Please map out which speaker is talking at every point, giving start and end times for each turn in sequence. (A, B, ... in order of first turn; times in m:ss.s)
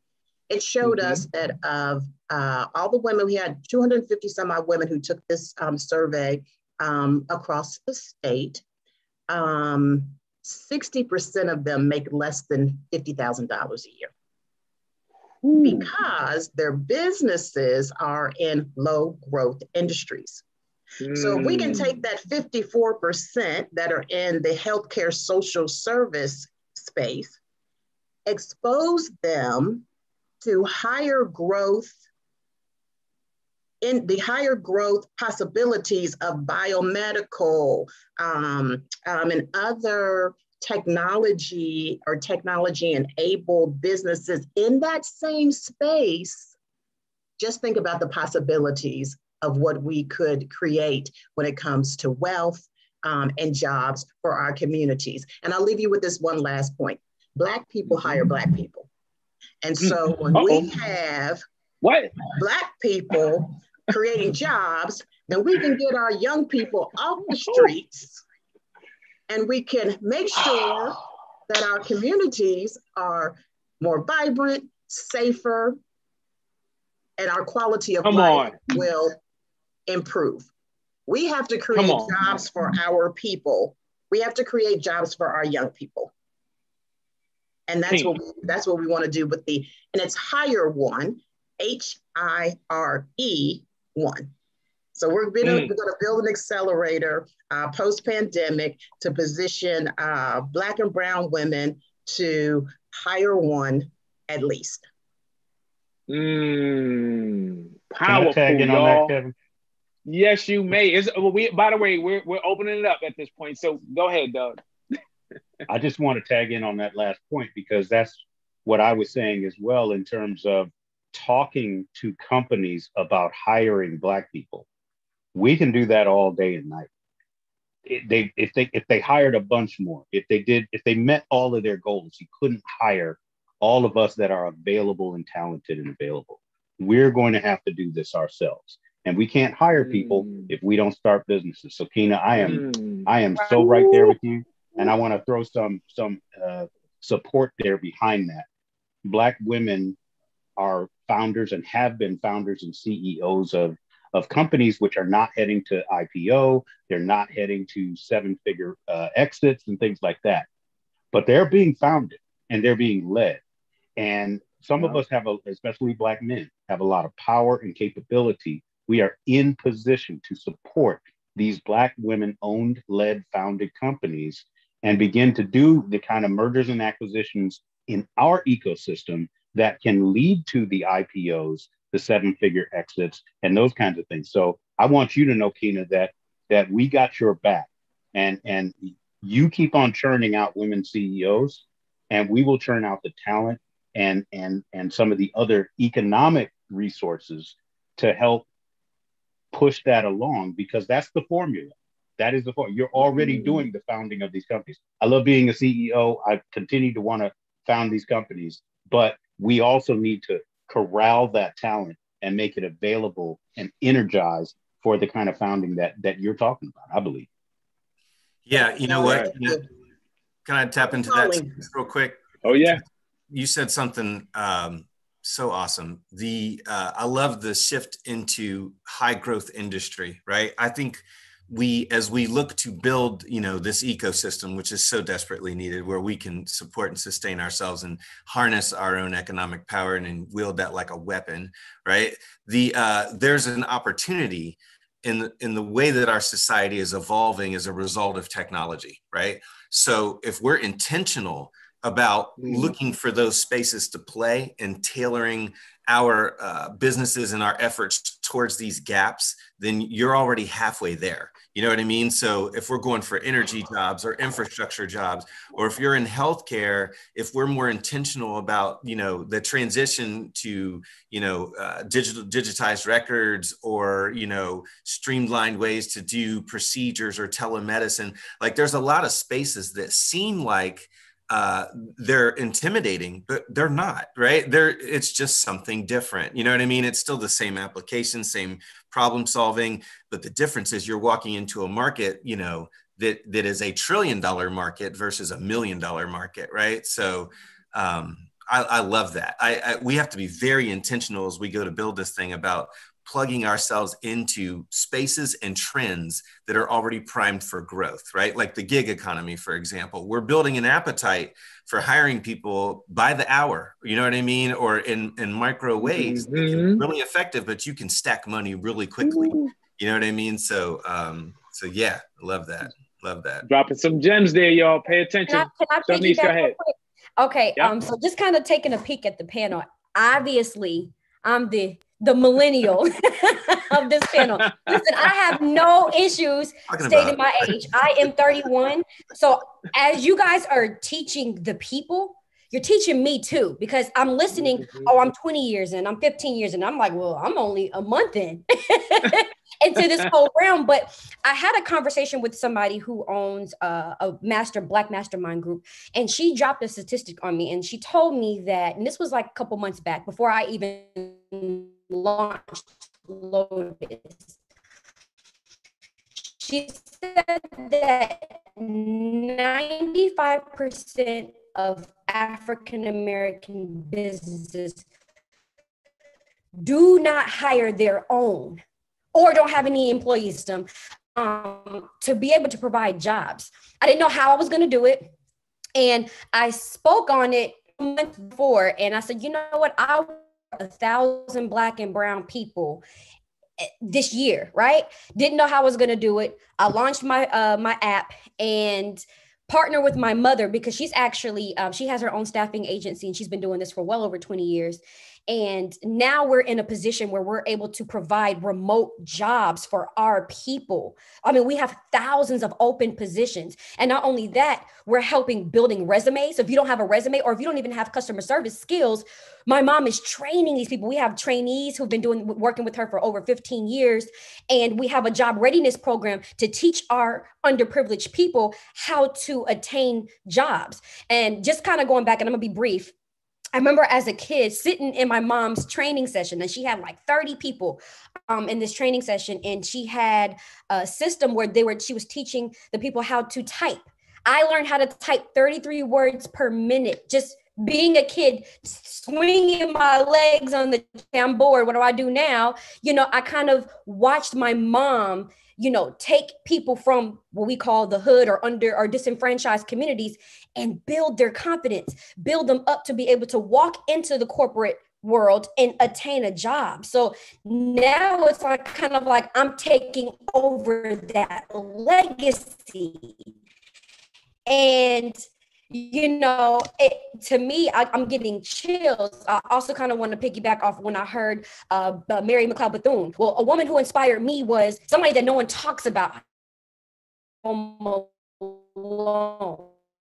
0:00.5-0:08.6 A
0:09.3-0:14.1 A
0:15.4-0:15.9 B
0:15.6-0:20.4 A
0:21.0-0:22.0 B
0:21.1-0:27.4 A
0:28.2-0:29.8 A
0:30.4-0:32.0 A
0:33.8-0:46.5 A
0:47.4-0:58.9 A
0:57.9-0:58.2 B
0:59.6-1:01.4 A
0:59.8-1:00.7 B
1:01.8-1:02.1 B
1:02.3-1:08.2 A
1:07.4-1:07.7 B
1:09.3-1:15.8 A
1:10.4-1:11.0 B
1:17.2-1:19.1 A
1:18.0-1:18.6 B
1:19.9-1:20.5 A
1:21.1-1:26.1 A
1:21.7-1:22.1 B
1:27.7-1:34.3 A
1:34.9-1:44.8 A
1:35.4-1:35.7 B
1:46.1-1:49.1 B
1:48.1-1:49.3 C
1:50.0-1:54.6 B
1:55.7-2:04.6 C
2:05.3-2:06.9 C
2:07.9-2:28.4 C
2:19.7-2:20.5 B
2:22.3-2:24.1 B
2:29.0-2:30.0 C
2:30.6-2:40.4 C
2:41.1-2:43.4 C
2:44.0-3:18.5 C
3:19.5-3:37.3 C
3:23.0-3:23.6 B
3:38.4-3:39.6 D
3:38.6-3:39.6 A
3:39.0-3:39.3 B
3:40.4-3:42.7 D
3:40.8-3:41.6 A
3:42.4-3:42.8 B
3:43.3-5:23.4 D
4:12.4-4:12.7 B
5:15.8-5:16.8 B
5:19.0-5:19.5 B
5:23.4-5:26.6 B
5:25.3-6:04.3 E
5:34.2-5:34.8 B
5:36.7-5:37.7 D
5:44.4-5:44.9 B
6:06.4-6:14.8 E
6:16.6-6:18.6 E
6:19.1-6:25.1 E
6:25.8-6:32.8 E
6:33.8-7:12.9 E
7:13.5-7:53.2 E
7:54.4-8:06.2 E
8:07.4-8:09.7 E